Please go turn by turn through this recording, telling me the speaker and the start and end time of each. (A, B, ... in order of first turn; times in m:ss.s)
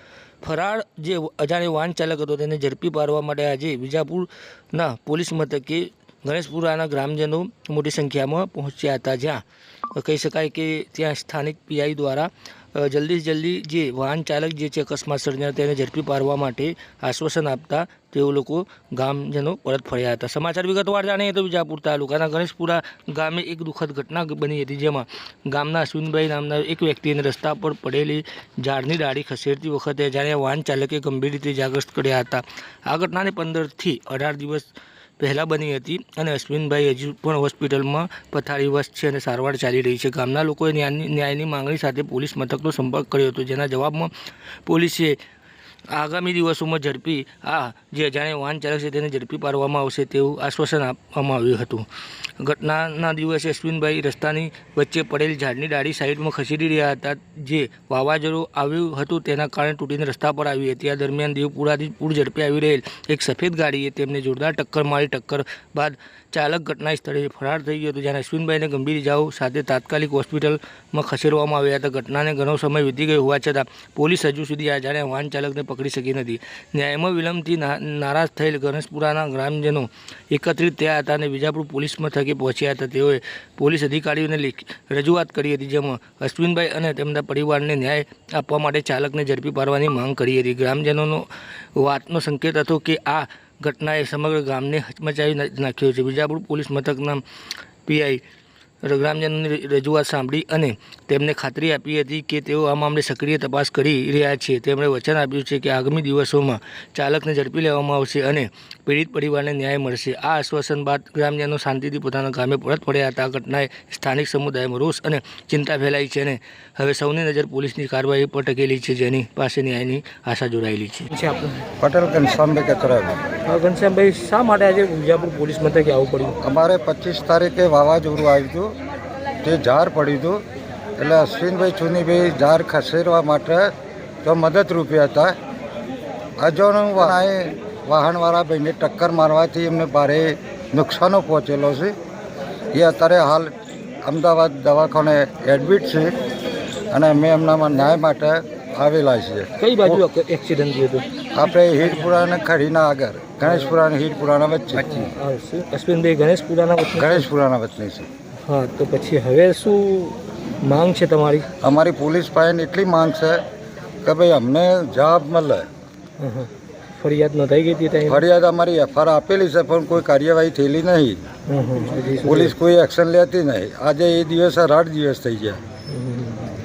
0:00.4-0:44.1 A
0:44.6-0:45.2 A
0:45.9-0:51.9 A
0:52.4-1:37.2 A
1:37.8-1:38.2 A
1:38.8-2:01.4 A
2:01.8-2:03.2 B
2:03.5-2:06.2 A
2:05.8-2:06.3 C
2:06.4-2:08.7 B
2:09.4-2:10.4 B
2:11.0-2:13.7 B
2:14.2-2:15.4 B
2:16.4-2:21.9 B
2:22.7-2:23.5 B
2:24.0-2:26.2 B
2:26.9-2:30.0 B
2:29.6-2:31.0 C
2:31.3-2:35.1 B
2:34.9-2:37.3 A
2:34.9-2:35.4 C
2:36.9-2:38.1 B
2:38.5-2:40.1 C
2:40.6-2:41.4 A
2:41.6-2:43.4 B
2:44.0-2:45.7 B
2:46.2-2:46.5 C
2:47.0-2:48.2 C
2:48.0-2:51.3 B
2:51.5-2:52.5 C
2:52.2-2:55.6 B
2:55.9-2:56.4 C